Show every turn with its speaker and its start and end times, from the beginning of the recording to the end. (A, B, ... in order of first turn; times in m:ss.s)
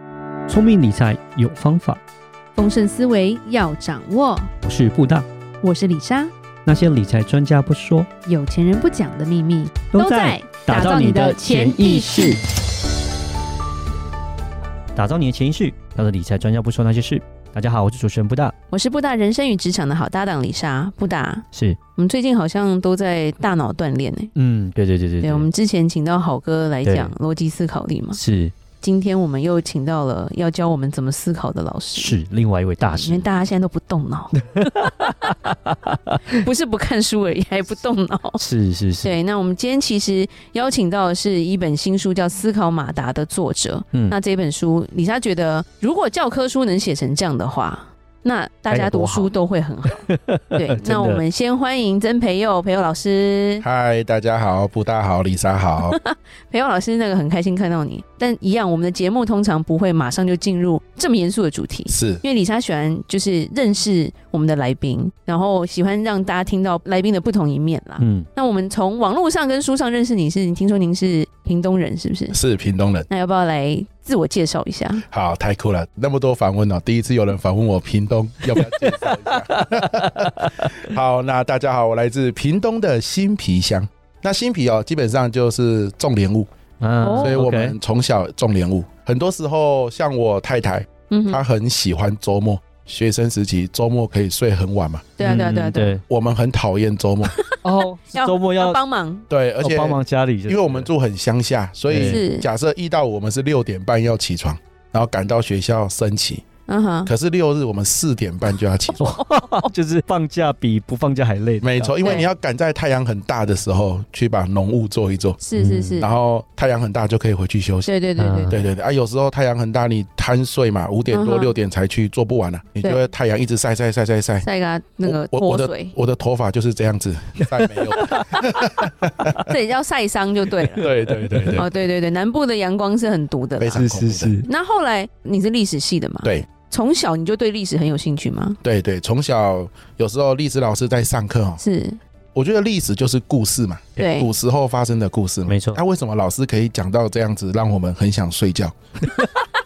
0:00.5-0:02.0 A
0:02.6-0:04.5 B
0:04.6-0:05.2 A
0:05.6-0:06.3 B
0:06.6-0:08.1 A
0:08.2-0:12.4 B
0:09.9-0:12.4 A
0:15.0-0:18.5 A
0:18.7-0:24.3 B
0:21.5-0:21.8 A
0:24.3-0:25.5 A
0:25.2-0:28.2 B
0:26.8-0:27.1 A
0:28.1-0:28.5 A
0:28.8-0:32.2 B
0:32.0-0:33.2 A
0:32.8-0:34.4 B
0:34.5-0:36.2 A
0:36.3-0:38.4 B
0:38.4-0:39.1 A
0:39.0-0:53.6 B
0:48.7-0:49.3 A
0:49.9-0:51.2 A
0:53.6-0:56.0 C
0:55.8-1:12.4 B
1:01.9-1:02.2 C
1:08.0-1:08.3 A
1:12.3-1:13.1 C
1:13.1-1:15.0 B
1:15.1-1:26.5 C
1:18.5-1:19.0 A
1:19.6-1:20.6 A
1:26.8-1:27.7 A
1:27.0-1:27.4 B
1:27.2-1:35.4 C
1:31.1-1:31.4 B
1:35.2-1:36.0 B
1:35.2-1:36.0 A
1:36.1-1:37.3 C
1:37.3-1:37.6 B
1:37.6-1:38.8 A
1:38.1-1:39.2 B
1:39.3-1:46.4 C
1:39.6-1:40.9 A
1:41.9-1:42.2 A
1:42.0-1:42.5 B
1:46.7-1:47.1 B
1:47.0-1:49.1 C
1:49.0-1:52.2 A
1:49.0-1:49.7 B
1:51.6-1:55.4 C
1:55.4-1:56.1 B
1:55.6-1:56.0 A
1:56.0-1:57.9 C
1:57.8-1:58.6 B
1:58.2-1:58.6 A
1:58.5-2:04.4 C
2:01.1-2:01.6 B
2:04.4-2:05.9 B
2:05.0-2:09.5 C
2:07.5-2:08.7 A
2:09.4-2:10.9 B
2:10.8-2:11.7 C
2:10.8-2:11.6 A
2:11.5-2:13.8 B
2:13.6-2:14.3 C
2:13.7-2:14.5 A
2:14.4-2:18.6 B
2:16.2-2:16.5 C
2:18.6-2:21.6 C
2:21.6-2:22.0 B
2:22.3-2:29.1 C
2:24.0-2:24.3 B
2:25.5-2:25.8 A